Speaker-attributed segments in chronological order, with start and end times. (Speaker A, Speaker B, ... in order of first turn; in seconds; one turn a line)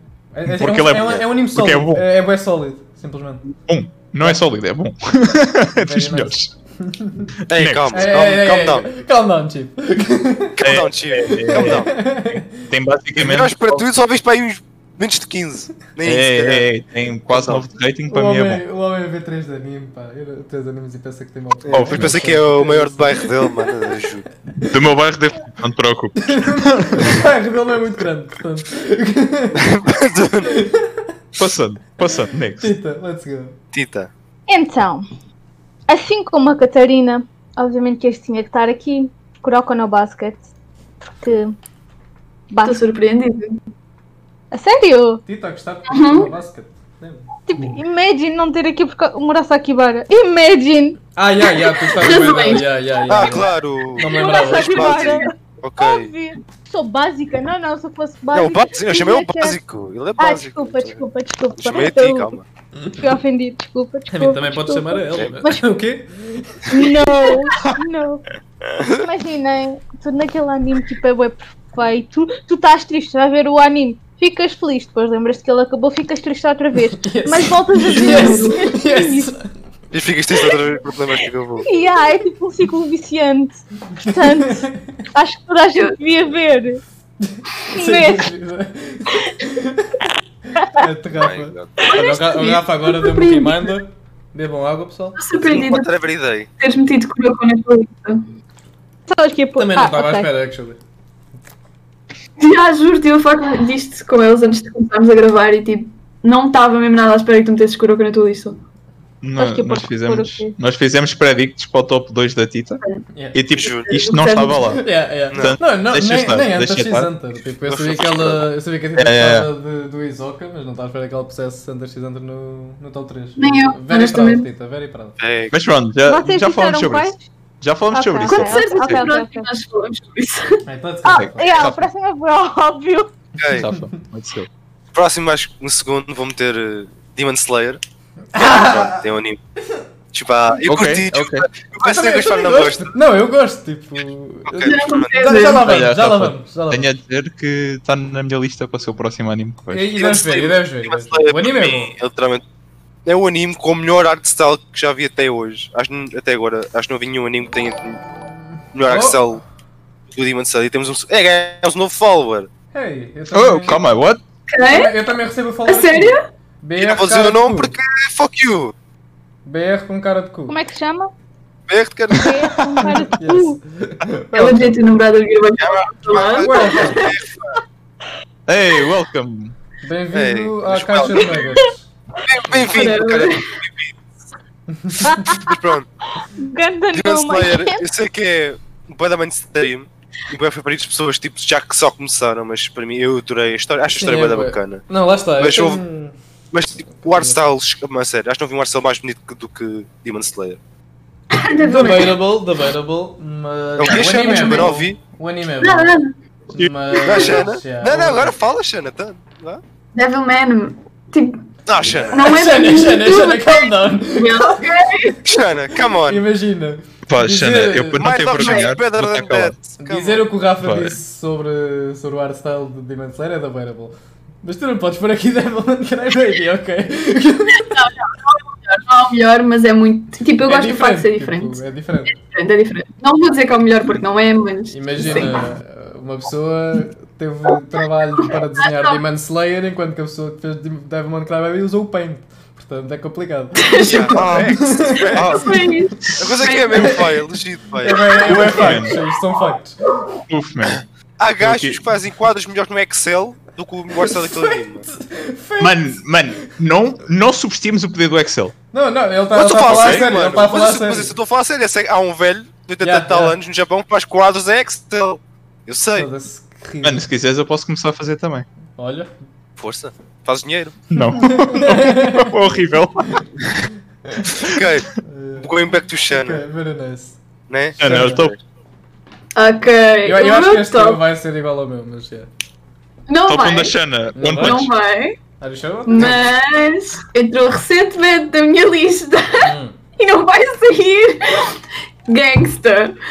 Speaker A: 0.3-3.5
Speaker B: 0.5-2.0
Speaker B: 3.7-6.5
Speaker A: 5.8-7.3
Speaker C: 7.5-8.9
Speaker B: 7.5-7.9
Speaker A: 7.9-12.6
Speaker C: 10.6-11.9
Speaker B: 10.6-13.8
Speaker C: 13.1-16.7
Speaker B: 16.0-18.6
Speaker C: 17.3-17.6
Speaker A: 18.1-23.7
Speaker C: 21.6-24.2
Speaker B: 21.7-22.2
Speaker A: 24.5-24.8
Speaker B: 24.7-27.2
Speaker A: 26.2-29.7
Speaker C: 29.5-30.6
Speaker A: 30.4-31.1
Speaker B: 31.4-32.7
Speaker A: 32.6-33.6
Speaker C: 33.7-34.1
Speaker D: 34.5-35.0
Speaker D: 35.9-40.4
Speaker D: 41.2-41.5
Speaker D: 42.5-42.8
Speaker E: 42.6-43.6
Speaker D: 44.5-45.2
Speaker A: 45.2-47.3
Speaker E: 45.9-46.3
Speaker D: 47.5-51.0
Speaker A: 51.1-55.1
Speaker E: 51.4-52.7
Speaker C: 53.1-56.1
Speaker D: 54.0-59.6
Speaker E: 54.9-55.2
Speaker C: 58.3-61.0
Speaker D: 60.2-62.3
Speaker C: 61.6-62.4
Speaker D: 62.9-65.8
Speaker A: 64.1-67.3
Speaker D: 66.7-68.2
Speaker D: 68.8-79.3
Speaker A: 77.0-79.5
Speaker E: 77.9-78.6
Speaker C: 79.9-81.7
Speaker D: 81.6-86.8
Speaker A: 84.0-84.8
Speaker A: 87.2-95.2
Speaker D: 87.7-88.3
Speaker C: 91.2-91.7
Speaker E: 91.8-93.7
Speaker E: 95.2-95.9
Speaker C: 95.4-96.5
Speaker E: 96.6-98.2
Speaker D: 99.1-100.3
Speaker A: 99.5-100.8
Speaker E: 102.4-108.6
Speaker B: 109.2-112.8
Speaker D: 109.4-110.5
Speaker A: 113.1-113.4
Speaker B: 113.3-117.1
Speaker C: 113.5-113.9
Speaker E: 113.9-114.8
Speaker A: 114.7-125.2
Speaker C: 115.3-115.6
Speaker C: 117.6-118.5
Speaker B: 119.0-119.5
Speaker E: 123.4-124.5
Speaker C: 125.2-125.5
Speaker B: 125.5-129.1
Speaker D: 126.0-127.2
Speaker D: 127.9-129.5
Speaker E: 128.3-130.6
Speaker A: 130.7-131.6
Speaker D: 131.0-133.1
Speaker B: 131.1-131.9
Speaker C: 133.4-133.6
Speaker B: 133.5-134.5
Speaker A: 133.5-133.9
Speaker C: 134.9-137.8
Speaker A: 138.3-139.1
Speaker C: 138.3-139.4
Speaker C: 140.1-142.9
Speaker B: 140.7-141.5
Speaker A: 141.8-146.9
Speaker C: 144.5-145.4
Speaker E: 144.6-145.7
Speaker B: 145.4-149.9
Speaker A: 149.7-151.9
Speaker C: 149.9-152.4
Speaker C: 153.0-158.0
Speaker C: 158.7-159.4
Speaker A: 158.8-159.4
Speaker C: 160.1-162.5
Speaker A: 162.7-163.8
Speaker B: 163.3-164.2
Speaker E: 164.5-164.9
Speaker A: 164.6-167.8
Speaker E: 165.7-166.2
Speaker C: 166.8-168.7
Speaker A: 169.4-170.6
Speaker D: 170.5-171.1
Speaker C: 171.7-172.6
Speaker D: 172.1-173.6
Speaker A: 173.1-174.8
Speaker E: 174.3-177.1
Speaker C: 175.6-177.5
Speaker A: 176.3-177.1
Speaker B: 178.5-179.5
Speaker A: 179.8-181.9
Speaker C: 180.1-181.5
Speaker C: 182.2-183.9
Speaker E: 182.7-183.5
Speaker A: 184.7-185.3
Speaker D: 185.0-185.6
Speaker C: 185.2-185.9
Speaker D: 186.3-187.8
Speaker C: 186.9-194.8
Speaker A: 194.0-196.1
Speaker C: 195.4-195.8
Speaker C: 196.5-200.6
Speaker A: 196.9-197.4
Speaker E: 201.3-202.2
Speaker A: 201.6-206.0
Speaker C: 203.8-205.0
Speaker E: 204.1-204.7
Speaker E: 205.6-206.1
Speaker A: 206.5-208.3
Speaker C: 207.0-209.6
Speaker E: 209.9-211.4
Speaker C: 211.7-212.3
Speaker A: 212.0-215.1
Speaker E: 212.1-215.2
Speaker C: 215.2-216.2
Speaker A: 216.0-218.2
Speaker B: 217.1-219.5
Speaker C: 217.9-220.3
Speaker E: 218.3-218.7
Speaker A: 219.8-227.8
Speaker B: 220.6-220.9
Speaker E: 227.6-231.6
Speaker A: 230.4-232.2
Speaker E: 232.1-235.3
Speaker A: 234.7-245.6
Speaker E: 238.6-239.0
Speaker E: 243.6-244.2
Speaker C: 243.8-245.6
Speaker E: 245.1-247.1
Speaker C: 246.1-248.5
Speaker A: 246.7-247.1
Speaker A: 247.8-249.8
Speaker B: 248.3-249.0
Speaker B: 250.3-250.8
Speaker C: 251.2-254.9
Speaker B: 251.4-251.8
Speaker A: 253.9-256.6
Speaker B: 255.6-258.5
Speaker A: 258.7-261.1
Speaker C: 259.3-266.1
Speaker B: 259.7-260.0
Speaker A: 262.8-263.4
Speaker A: 265.9-267.1
Speaker B: 266.8-268.4
Speaker A: 268.8-269.1
Speaker C: 269.6-270.8
Speaker B: 270.9-273.2
Speaker A: 271.2-272.3
Speaker C: 274.3-276.4
Speaker A: 275.0-275.5
Speaker A: 276.1-277.2
Speaker C: 277.5-278.4
Speaker B: 277.8-278.3
Speaker A: 277.8-278.3
Speaker E: 279.3-281.0
Speaker A: 280.0-282.3
Speaker E: 283.1-283.8
Speaker B: 283.3-284.7
Speaker A: 284.1-284.7
Speaker E: 284.3-285.2
Speaker A: 285.4-286.2
Speaker E: 285.9-292.9
Speaker A: 289.4-289.8